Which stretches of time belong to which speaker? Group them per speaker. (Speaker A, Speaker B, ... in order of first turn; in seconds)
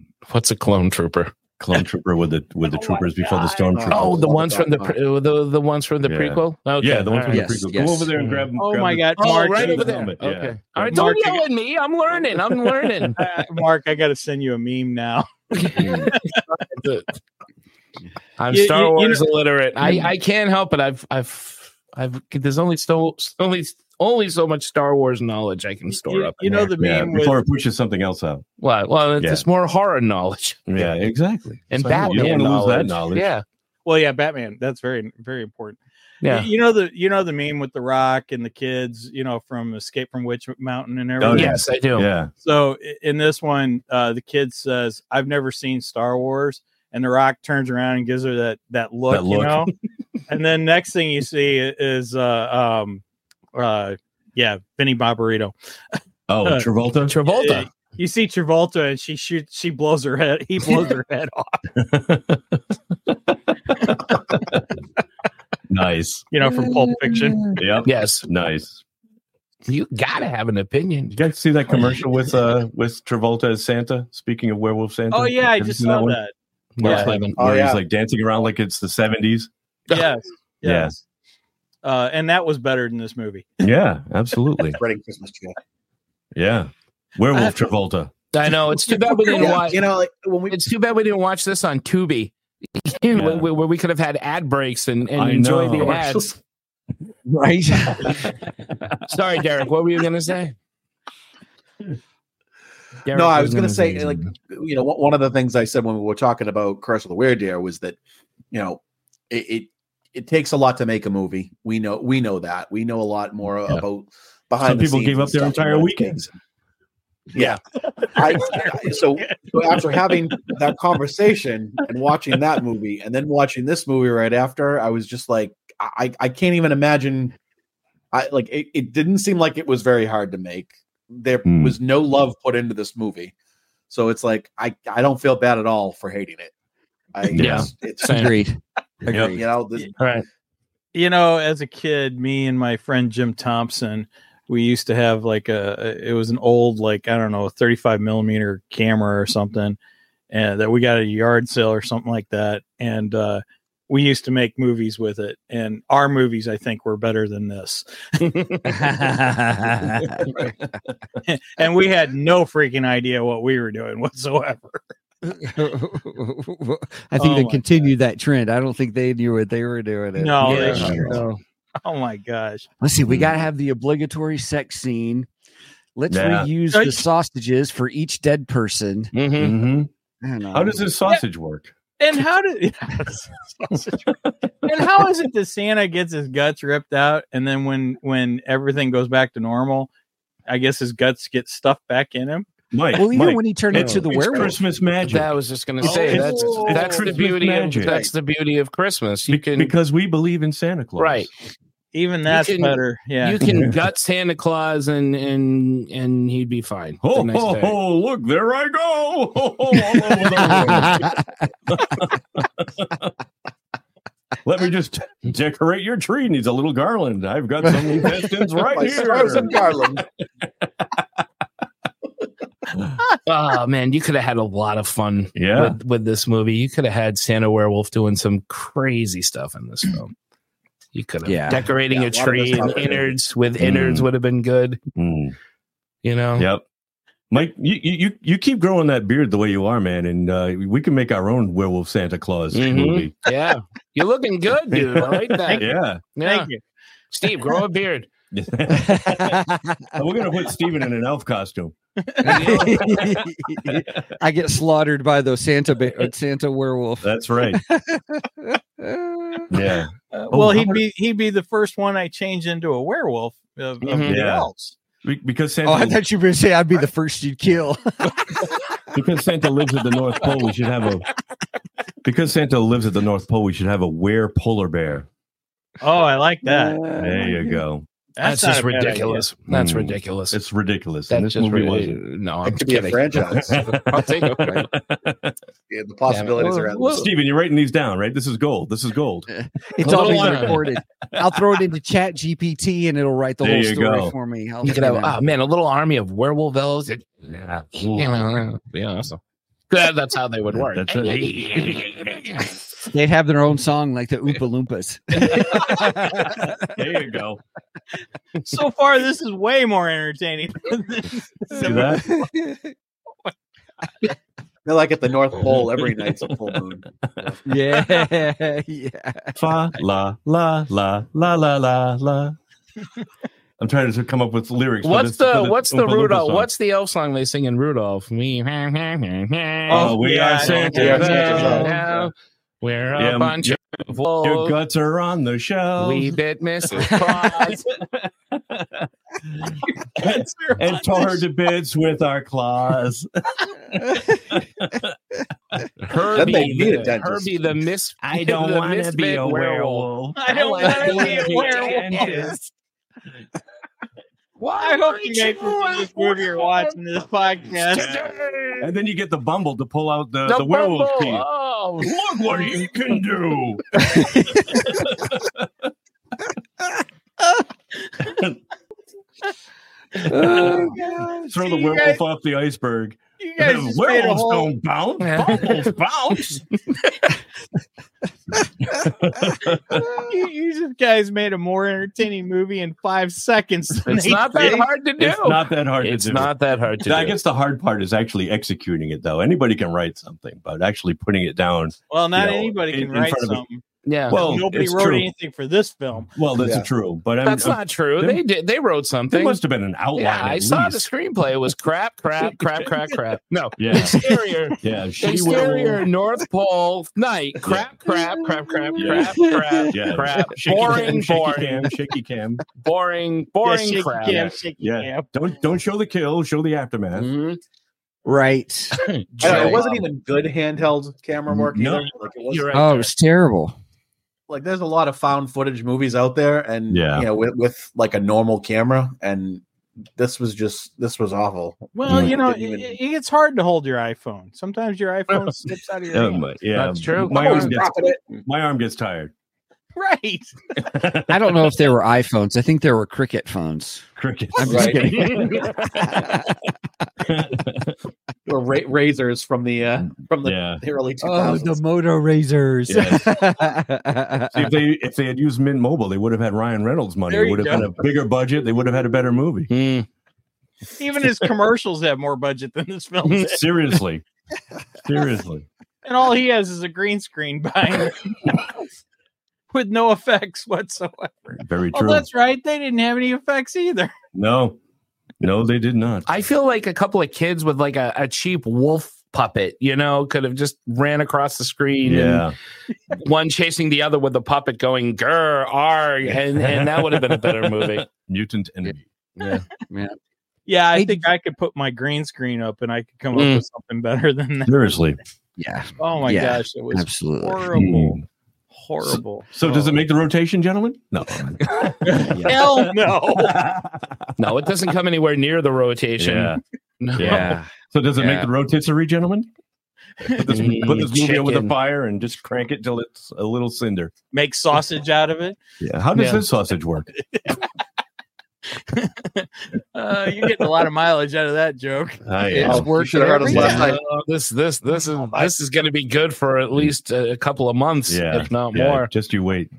Speaker A: 0.2-1.3, 3.9-7.5, 8.2-8.5, 9.2-13.2, 15.6-17.0, 18.4-26.7, 28.6-30.9, 31.7-33.4, 36.2-36.5, 41.3-42.1, 57.1-57.6, 67.8-68.3, 69.7-71.1, 76.8-77.4, 88.3-89.9, 90.5-96.3, 99.1-100.5, 103.0-104.2, 137.4-138.3, 140.0-140.2, 158.3-158.6, 170.4-171.4, 179.1-179.6, 193.7-194.0, 195.1-199.7, 201.0-201.3, 202.3-207.8, 223.2-230.1, 230.9-234.8, 236.0-236.5, 242.5-245.6, 246.1-246.5, 247.1-248.1, 252.2-252.9, 263.8-264.2, 278.2-280.4, 281.1-283.2, 283.9-284.6, 286.1-286.9, 289.8-290.6, 294.6-297.1, 297.8-299.2, 299.7-302.4, 324.8-334.6, 335.8-337.6, 345.9-351.8, 354.4-356.8, 357.7-358.7, 360.2-361.9, 375.0-376.4, 383.8-387.2, 393.9-394.2, 397.2-399.4, 399.9-411.7, 412.6-414.2, 418.7-419.6, 422.3-422.9, 436.5-437.5, 444.9-445.3, 459.5-459.9, 476.1-482.2, 483.0-487.8, 489.2-489.4, 493.1-493.4, 504.2-507.3, 510.3-511.5, 515.9-516.2, 523.3-528.9
Speaker B: 1.6-4.3, 6.0-11.1, 15.8-16.1, 26.8-28.4, 29.2-29.4, 30.7-33.3, 41.2-42.3, 49.1-49.7, 56.3-57.1, 61.8-62.6, 63.9-64.6, 65.7-66.2, 67.5-68.8, 71.1-76.2, 76.8-79.5, 80.6-80.9, 83.6-84.8, 86.3-88.1, 93.1-93.5, 95.1-96.2, 114.6-116.3, 131.4-131.8, 137.3-137.7, 139.1-139.4, 170.5-171.2, 173.1-173.4, 176.1-176.5, 179.4-179.9, 180.5-181.7, 192.7-195.3, 196.2-198.1, 199.3-201.3, 203.4-203.7, 207.0-213.1, 214.4-219.6, 225.3-225.8, 233.6-234.1, 234.9-235.3, 236.3-236.6, 237.3-243.1, 244.7-246.0, 248.3-251.7, 252.2-254.1, 257.0-257.6, 259.5-260.8, 264.0-264.5, 265.0-266.0, 268.9-271.0, 272.0-275.1, 276.9-277.8, 279.5-282.0, 283.4-285.3, 286.9-290.6, 293.4-294.1, 297.2-298.1, 300.6-302.4, 305.4-307.4, 311.5-312.2, 319.4-322.4, 323.6-326.5, 329.7-331.7, 332.9-336.1, 337.7-344.9, 348.0-352.4, 357.7-361.2, 361.8-365.5, 368.0-368.4, 370.0-370.7, 371.3-376.4, 378.7-380.0, 385.0-386.3, 386.8-393.4, 394.1-395.1, 396.1-398.2, 399.1-400.8, 403.6-404.0, 404.6-405.8, 407.4-407.8, 408.7-412.4, 414.1-417.1, 419.2-419.6, 421.3-421.9, 426.7-427.1, 431.9-432.1, 435.1-435.4, 435.9-439.1, 440.6-441.2, 444.0-445.1, 447.0-447.8, 450.2-450.6, 452.7-453.2, 454.3-459.5, 463.3-464.0, 464.8-465.4, 471.4-472.1, 474.1-474.6, 475.2-476.1, 481.8-482.3, 486.4-488.9, 494.4-495.0, 497.5-498.0, 498.8-504.1, 506.0-506.4, 506.9-509.3, 510.1-513.9, 515.6-516.9, 522.0-522.7, 523.3-523.6, 527.9-529.5
Speaker C: 2.7-3.7, 8.6-10.0, 10.9-11.4, 13.2-16.4, 18.5-19.2, 25.9-27.4, 33.8-41.6, 42.4-49.7, 50.3-53.0, 53.5-55.5, 57.2-61.6, 66.3-67.4, 75.1-76.3, 76.8-77.1, 79.9-81.0, 81.8-83.5, 118.0-119.4, 140.9-149.8, 150.3-157.8, 161.2-164.8, 167.2-167.9, 170.2-171.0, 171.8-172.7, 176.7-177.0, 182.0-184.1, 184.6-189.9, 190.5-192.5, 195.8-196.8, 201.9-203.4, 245.1-246.6, 252.0-252.3, 260.1-264.8, 275.8-276.8, 278.2-279.2, 308.4-312.2, 329.7-331.7, 340.0-341.2, 350.1-352.2, 354.5-357.9, 370.5-372.0, 373.2-374.5, 380.0-384.6, 391.9-396.1, 413.4-415.1, 431.7-436.3, 439.7-440.3, 457.1-457.7, 460.8-463.4, 465.8-468.1, 469.5-473.9, 490.5-494.6, 495.8-499.8, 501.8-503.4, 514.1-515.4, 517.1-517.4, 518.6-522.0
Speaker D: 3.7-5.0, 76.8-77.8, 84.8-85.5, 89.3-90.6, 103.1-108.0, 108.5-116.2, 117.3-127.3, 128.1-133.3, 133.9-136.5, 137.1-138.3, 139.1-139.9, 195.8-197.0, 218.7-220.1, 231.9-233.1, 282.4-283.6, 285.7-287.1, 314.6-317.4, 330.6-331.7, 346.1-347.5, 396.4-396.7, 419.2-422.5, 424.3-429.4, 430.0-432.7, 437.0-438.2, 444.4-445.4, 448.3-451.6, 522.4-523.8
Speaker E: 7.3-8.1, 97.3-98.2, 138.0-139.4, 158.7-160.2, 165.3-171.2, 172.8-175.3, 175.9-179.1, 180.2-180.8, 192.9-194.6, 210.6-211.1, 231.2-231.7, 248.7-249.9, 252.2-259.5, 265.6-268.7, 276.4-277.6, 286.4-286.7, 289.3-295.1, 302.9-306.6, 311.8-312.7, 317.4-319.4, 336.9-337.1, 351.9-352.5, 363.9-364.2, 370.1-371.3, 407.9-409.9, 417.0-417.4, 418.0-418.8, 422.5-423.6, 441.1-446.4, 451.0-454.5, 489.7-490.0, 490.7-491.0, 495.4-497.4, 502.1-502.4, 507.0-508.2, 522.3-523.7